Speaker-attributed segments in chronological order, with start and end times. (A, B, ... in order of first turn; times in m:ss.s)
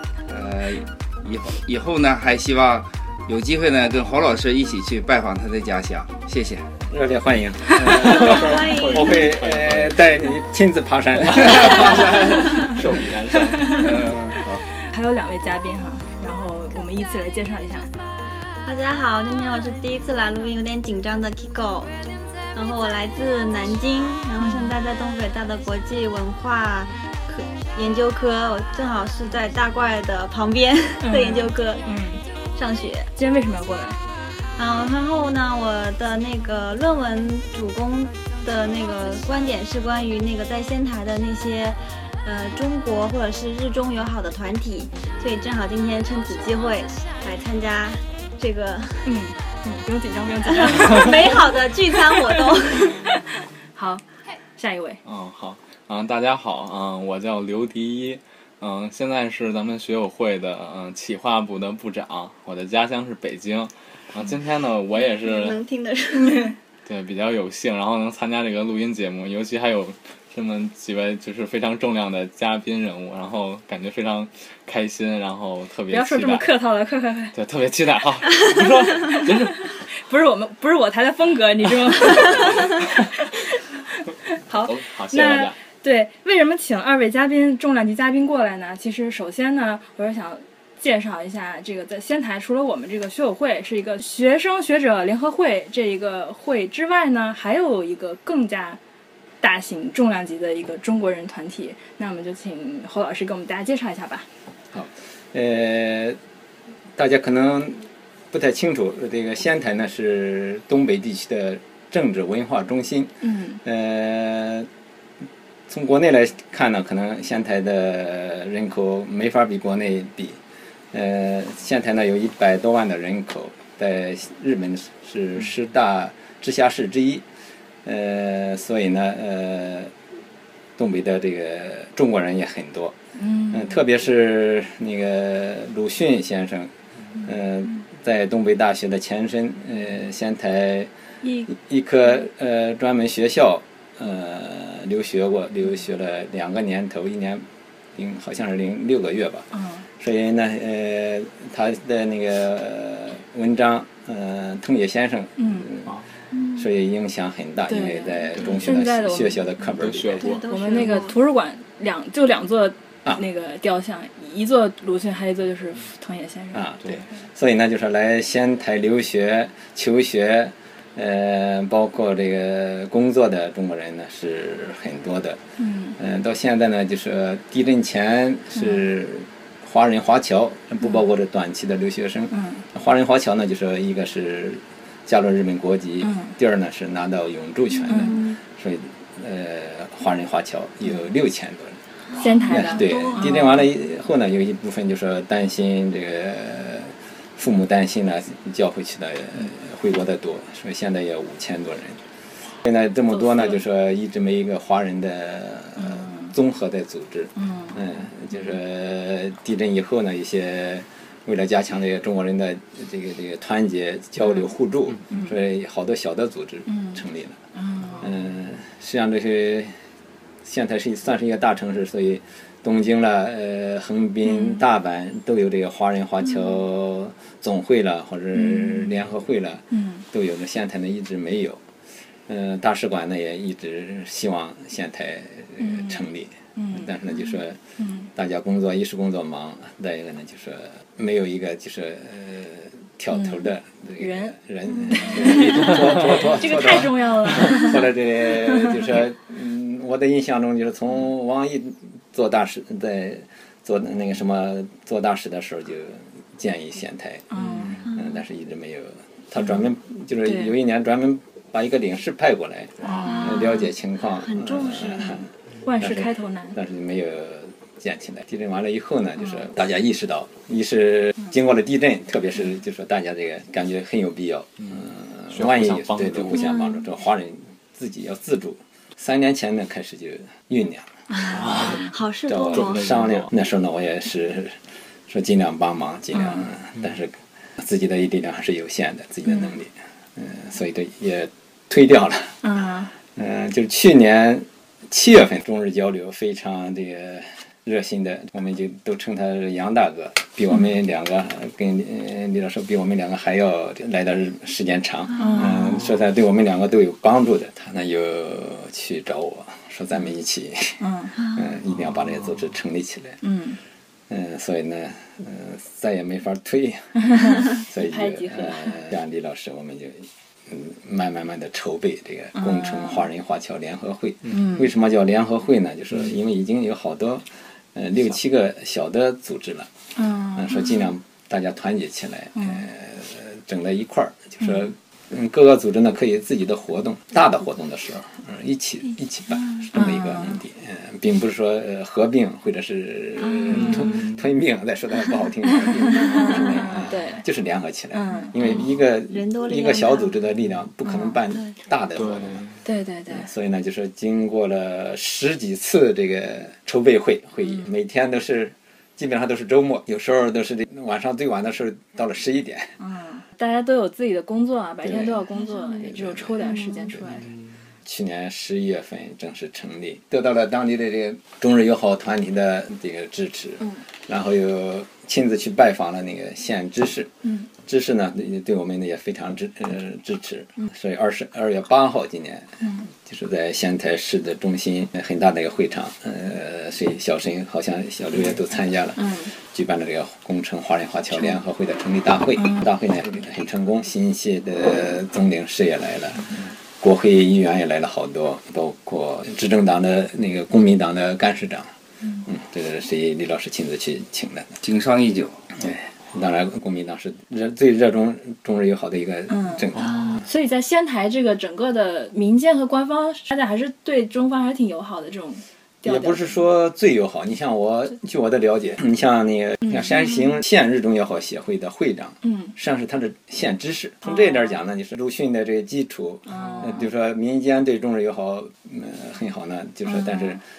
0:00.3-0:06.7 A
0:06.9-0:12.3 B
0:07.7-0:08.2 A
0:07.9-0:10.0 C
0:08.0-0:09.2 D
0:11.3-0:12.6 A
0:11.4-0:13.8 C
0:13.4-0:14.1 E
0:13.7-0:14.6 A
0:14.9-0:17.9 E
0:18.6-0:21.9 D
0:22.6-0:31.9 D
0:24.4-0:24.7 E
0:31.0-0:32.2 E
0:32.6-0:33.1 D
0:33.2-0:34.0 E
0:34.6-0:49.0 D
0:49.0-0:54.0 E
0:50.5-0:53.1 D
0:54.6-0:55.0 E
0:55.0-1:05.6 C
1:05.2-1:06.5 D
1:06.9-1:16.5 C
1:15.9-1:17.3 E
1:17.3-1:19.7 C
1:19.9-1:23.6 E
1:24.3-1:38.8 E
1:24.5-1:25.6 C
1:39.4-1:44.3 E
1:44.7-1:46.2 B
1:47.0-1:54.7 B
1:53.2-1:53.6 E
1:55.7-2:00.4 B
2:00.9-2:07.2 B
2:07.8-2:09.9 B
2:10.8-2:13.0 B
2:13.2-2:13.7 E
2:13.5-2:16.7 B
2:17.2-2:20.9 B
2:21.2-2:21.5 E
2:21.5-2:36.0 B
2:29.5-2:29.8 E
2:35.4-2:35.7 E
2:36.3-2:36.6 D
2:36.6-2:40.4 B
2:37.7-2:39.4 E
2:39.8-2:40.4 C
2:40.2-2:41.2 D
2:40.5-2:46.6 E
2:46.5-2:55.4 B
2:55.6-2:56.0 E
2:56.0-3:11.8 B
2:58.6-2:58.8 E
3:02.3-3:02.6 E
3:06.0-3:06.3 E
3:07.9-3:08.2 E
3:07.9-3:08.3 D
3:12.2-3:13.6 E
3:12.5-3:13.3 D
3:12.5-3:22.0 B
3:22.6-3:37.4 B
3:23.1-3:23.6 E
3:25.8-3:26.3 E
3:27.4-3:27.8 E
3:36.7-3:37.0 E
3:37.6-3:38.0 E
3:38.0-3:39.7 B
3:40.4-3:51.6 B
3:44.3-3:44.6 E
3:48.4-3:48.8 E
3:49.7-3:50.0 E
3:52.3-3:57.6 B
3:55.6-3:56.9 E
3:57.8-3:58.1 E
3:58.2-4:17.3 B
4:03.1-4:03.4 E
4:04.0-4:04.4 E
4:04.7-4:05.2 D
4:04.9-4:07.8 E
4:08.5-4:08.8 E
4:17.3-4:17.8 E
4:17.4-4:17.8 C
4:17.8-4:41.5 B
4:20.2-4:20.5 E
4:22.8-4:23.5 E
4:23.1-4:25.2 D
4:25.6-4:26.6 E
4:34.6-4:36.4 C
4:36.3-4:36.8 D
4:41.1-4:41.9 E
4:41.3-4:41.9 C
4:41.8-4:43.0 D
4:42.3-4:52.4 B
4:42.5-4:43.3 C
4:46.2-4:46.5 E
4:52.4-4:52.9 E
4:53.1-5:13.2 B
5:05.2-5:05.8 E
5:10.8-5:11.2 E
5:13.2-5:13.6 E
5:14.1-5:29.7 B
5:17.1-5:18.8 E
5:22.4-5:23.0 E
5:24.3-5:24.6 E
5:30.0-5:30.8 E
5:30.3-5:52.4 B
5:32.4-5:32.6 E
5:39.8-5:40.4 E
5:43.2-5:43.8 D
5:43.6-5:43.8 E
5:43.6-5:44.2 C
5:45.5-5:47.2 E
5:46.1-5:46.6 D
5:47.9-5:48.3 E
5:48.4-5:50.1 D
5:50.9-5:51.1 E
5:52.0-5:52.5 C
5:52.6-5:53.3 E
5:53.1-6:02.7 B
6:02.8-6:07.3 E
6:04.8-6:07.3 B
6:07.8-6:17.1 B
6:17.6-6:41.7 B
6:22.6-6:22.9 E
6:29.0-6:29.3 E
6:32.4-6:32.6 E
6:42.3-6:44.5 B
6:44.6-6:45.4 A
6:45.6-6:50.0 B
6:49.3-6:49.6 E
6:49.8-6:50.2 D
6:50.2-6:56.3 E
6:55.8-7:10.4 B
6:59.6-7:00.1 E
7:02.2-7:02.5 E
7:06.3-7:06.8 E
7:09.9-7:10.4 E